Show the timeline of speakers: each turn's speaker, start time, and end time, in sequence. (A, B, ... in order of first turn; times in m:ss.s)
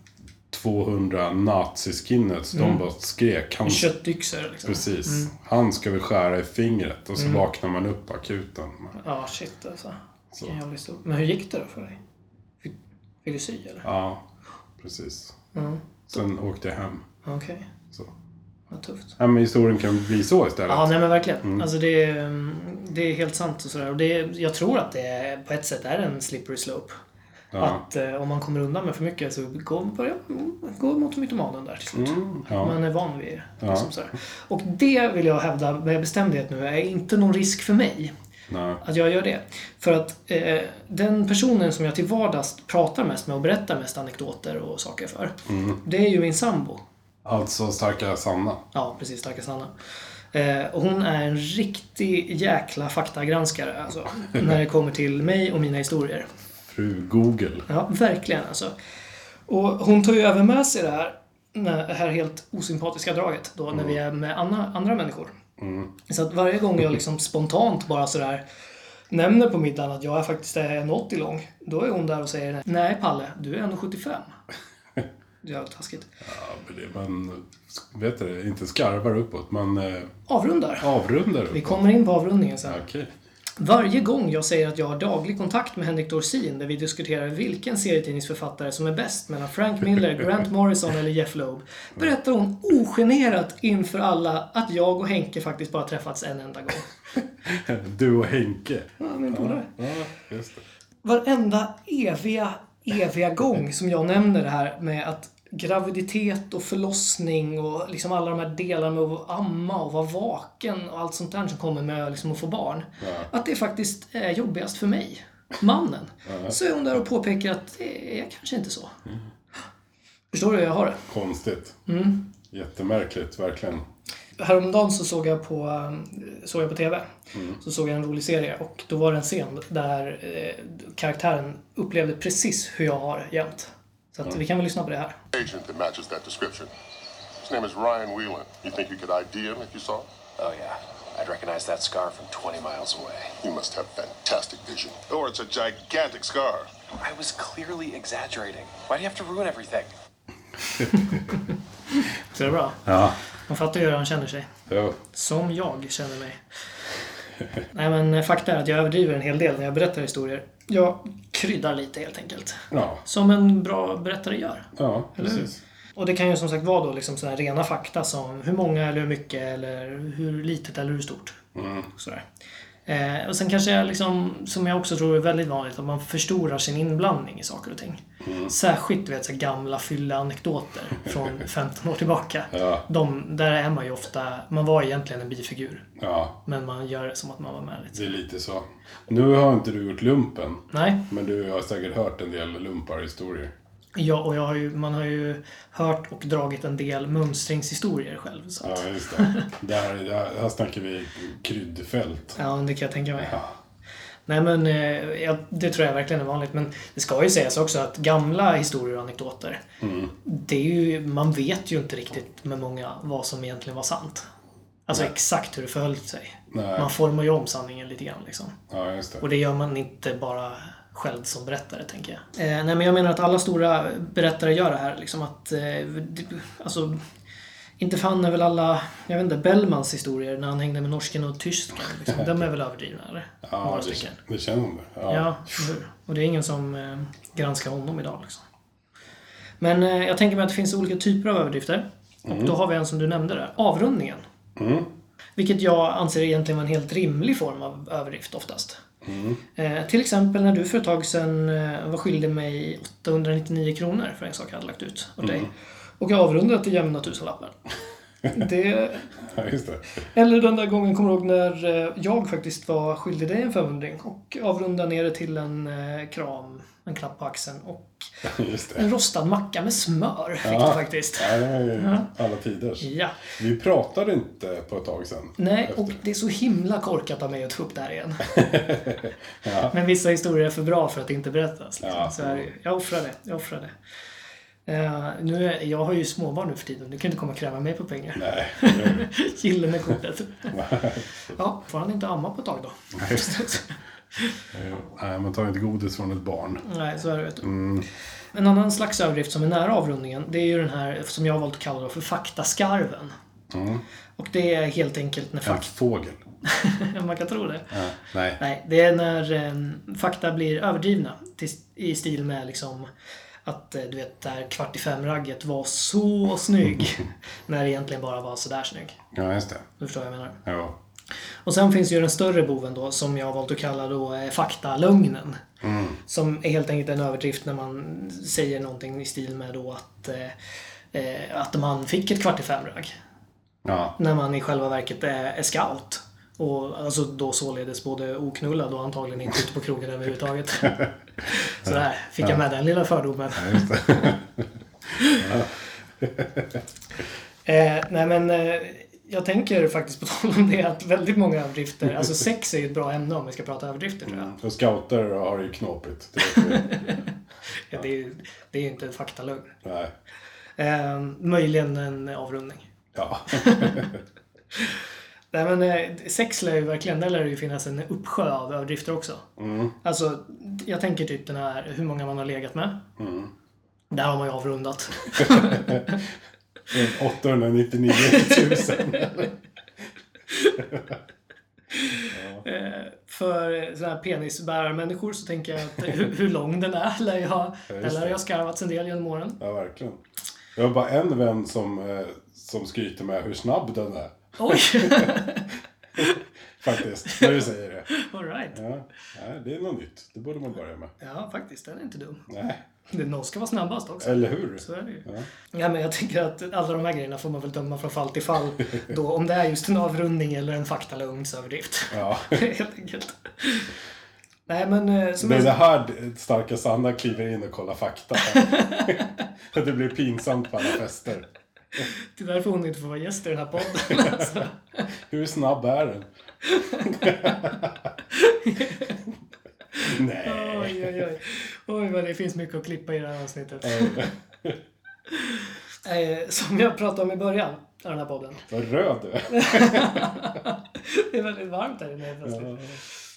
0:00.5-0:03.9 A
0:02.5-0:02.8 B
0:03.6-0:05.3 B
0:04.6-0:09.0 A
0:07.2-0:07.4 B
0:09.0-0:12.0 B
0:13.2-0:13.8 B
0:13.8-0:14.2 A
0:14.8-0:15.3 A
0:15.5-0:16.2 B
0:16.1-0:17.0 A
0:17.2-0:17.7 B
0:18.7-0:19.1 B
0:19.2-0:21.7 A
0:20.7-0:27.0 B
0:27.5-0:27.8 A
0:27.6-0:38.1 B
0:31.9-0:32.8 A
0:33.6-0:33.9 A
0:38.5-0:38.8 A
0:38.8-0:46.8 B
0:45.5-0:45.8 A
0:47.2-0:48.6 A
0:48.7-0:49.7 B
0:50.3-0:56.2 B
0:56.7-0:57.7 A
0:57.7-0:58.7 B
0:59.5-1:05.4 B
1:05.6-1:05.9 A
1:06.1-1:08.4 B
1:09.1-1:14.3 B
1:15.4-1:16.1 B
1:16.2-1:20.1 A
1:20.3-1:20.9 B
1:20.8-1:21.8 A
1:21.5-1:22.8 B
1:22.6-1:23.1 A
1:23.6-1:36.9 B
1:37.4-1:40.6 A
1:39.0-1:39.7 B
1:41.0-1:58.9 B
1:53.0-1:53.3 A
1:56.2-1:56.5 A
2:00.3-2:01.0 B
2:01.1-2:01.8 A
2:01.9-2:02.3 B
2:02.5-2:03.8 A
2:04.4-2:15.2 B
2:07.3-2:07.6 A
2:15.3-2:16.7 C
2:17.4-2:20.1 C
2:20.4-2:23.3 D
2:23.4-2:26.7 C
2:27.0-2:29.9 D
2:32.3-2:32.8 B
2:32.8-2:33.2 A
2:33.5-2:34.5 B
2:34.7-2:35.0 A
2:35.1-2:36.4 B
2:37.7-2:51.4 B
2:42.7-2:43.0 A
2:44.8-2:45.6 A
2:51.5-2:51.9 A
2:51.9-2:52.2 B
2:52.9-3:05.8 B
2:58.2-2:58.5 A
3:02.5-3:02.8 A
3:06.0-3:06.4 A
3:06.4-3:08.2 B
3:07.9-3:13.5 A
3:10.7-3:11.0 B
3:13.9-3:19.5 B
3:18.6-3:22.4 A
3:22.4-3:23.4 B
3:23.2-3:23.5 A
3:24.3-3:29.6 B
3:29.8-3:30.1 A
3:30.2-3:34.2 B
3:34.9-3:38.5 B
3:36.5-3:36.9 A
3:38.7-3:39.2 A
3:39.2-3:47.0 B
3:47.8-3:54.2 B
3:52.1-3:52.4 A
3:53.4-3:55.7 A
3:55.1-3:58.4 B
3:59.6-4:04.2 B
4:02.3-4:02.6 A
4:04.6-4:04.9 A
4:05.4-4:08.8 B
4:09.0-4:09.4 A
4:09.6-4:17.6 B
4:15.2-4:15.5 A
4:18.3-4:19.1 B
4:19.2-4:19.9 A
4:20.1-4:28.1 B
4:28.2-4:28.9 A
4:28.7-4:32.1 B
4:30.4-4:36.0 A
4:32.8-4:33.2 B
4:35.4-4:38.4 B
4:38.3-4:39.7 A
4:39.7-4:43.7 B
4:41.8-4:42.5 A
4:44.6-4:50.6 B
4:48.1-4:49.1 A
4:50.5-4:51.3 A
4:51.3-4:54.4 B
4:52.9-4:53.5 A
4:54.5-4:56.6 A
4:56.6-4:57.5 B
4:57.4-4:57.8 A
4:58.3-5:03.1 B
5:03.5-5:03.8 A
5:04.2-5:05.7 B
5:05.4-5:06.2 A
5:06.4-5:07.7 B
5:07.7-5:08.4 A
5:08.4-5:12.9 B
5:13.4-5:19.0 B
5:19.1-5:19.7 A
5:19.8-5:20.4 B
5:20.4-5:20.8 A
5:21.4-5:25.4 B
5:25.6-5:26.0 A
5:26.1-5:30.3 B
5:30.9-5:32.9 B
5:33.6-5:33.9 A
5:34.0-5:43.8 B
5:43.4-5:44.4 A
5:45.0-5:46.6 A
5:47.4-5:54.3 B
5:54.0-5:56.8 A
5:56.2-5:57.1 B
5:57.7-5:59.6 B
5:59.6-5:59.9 A
6:00.6-6:02.7 B
6:02.9-6:04.0 A
6:03.3-6:03.9 B
6:05.3-6:09.2 B
6:09.4-6:09.7 A
6:09.8-6:12.8 B
6:13.0-6:13.3 A
6:13.9-6:16.0 B
6:15.2-6:15.9 A
6:16.7-6:19.3 A
6:18.0-6:19.1 B
6:20.6-6:20.9 A
6:21.7-6:29.4 B
6:22.1-6:22.4 A
6:27.7-6:28.2 A
6:29.4-6:30.0 A
6:30.6-6:35.2 A
6:34.4-6:36.2 B
6:36.0-6:37.9 A
6:37.1-6:38.6 B
6:38.5-6:40.9 A
6:41.0-6:42.2 B
6:42.3-6:42.6 A
6:42.9-6:53.7 B
6:44.0-6:45.3 A
6:51.9-6:52.4 A
6:54.5-6:55.6 B
6:55.2-7:01.3 A
6:58.2-6:59.0 B
7:01.9-7:04.6 B
7:03.8-7:04.3 A
7:05.1-7:06.1 A
7:06.5-7:07.5 B
7:06.8-7:07.8 A
7:08.1-7:09.0 B
7:09.8-7:11.1 A
7:10.2-7:14.1 B
7:13.6-7:14.6 A
7:15.1-7:18.4 B
7:18.5-7:20.1 A
7:19.3-7:22.6 B
7:22.2-7:22.8 A